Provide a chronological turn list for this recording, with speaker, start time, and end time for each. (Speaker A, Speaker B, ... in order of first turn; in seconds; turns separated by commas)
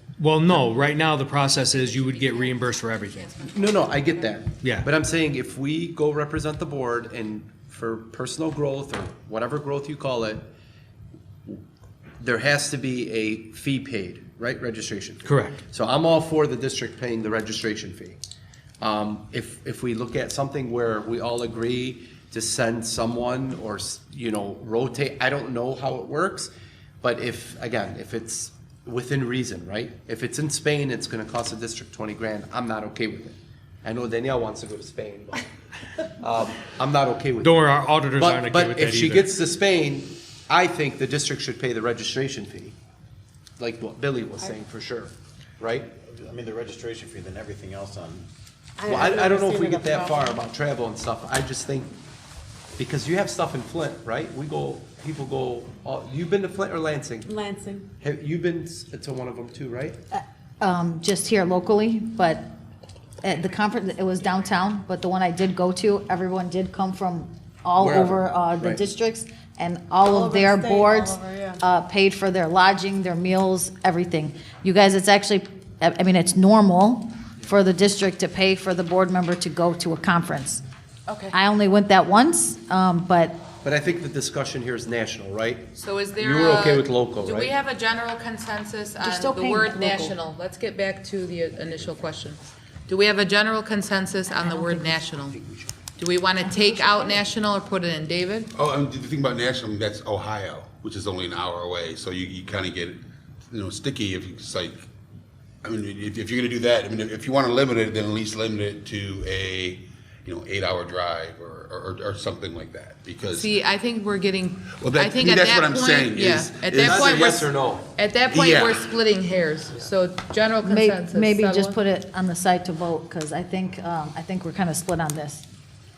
Speaker A: 0.2-3.3, Speaker B: 1.7-4.2, Speaker C: 3.4-10.5, Speaker A: 4.6-4.9, Speaker C: 12.2-18.2, Speaker A: 15.2-15.6, Speaker C: 18.8-26.5, Speaker C: 27.0-35.5, Speaker C: 36.2-37.6, Speaker A: 37.4-39.3, Speaker C: 38.1-42.8, Speaker C: 43.6-45.9, Speaker D: 46.0-48.3, Speaker E: 48.8-50.4, Speaker C: 48.9-51.9, Speaker C: 52.8-57.3, Speaker E: 57.2-57.9, Speaker C: 58.0-60.0, Speaker F: 60.1-62.5, Speaker F: 63.2-80.6, Speaker C: 67.8-68.9, Speaker E: 70.0-71.6, Speaker B: 81.1-81.4, Speaker F: 81.3-83.4, Speaker C: 83.6-87.5, Speaker B: 85.7-95.4, Speaker F: 89.0-90.1, Speaker C: 95.0-95.8, Speaker B: 96.0-98.5, Speaker F: 96.5-97.2, Speaker G: 98.5-104.8, Speaker G: 105.6-113.5, Speaker B: 113.3-117.4, Speaker G: 114.8-117.3, Speaker C: 116.7-117.9, Speaker B: 118.0-121.8, Speaker G: 118.3-119.0, Speaker F: 120.6-125.5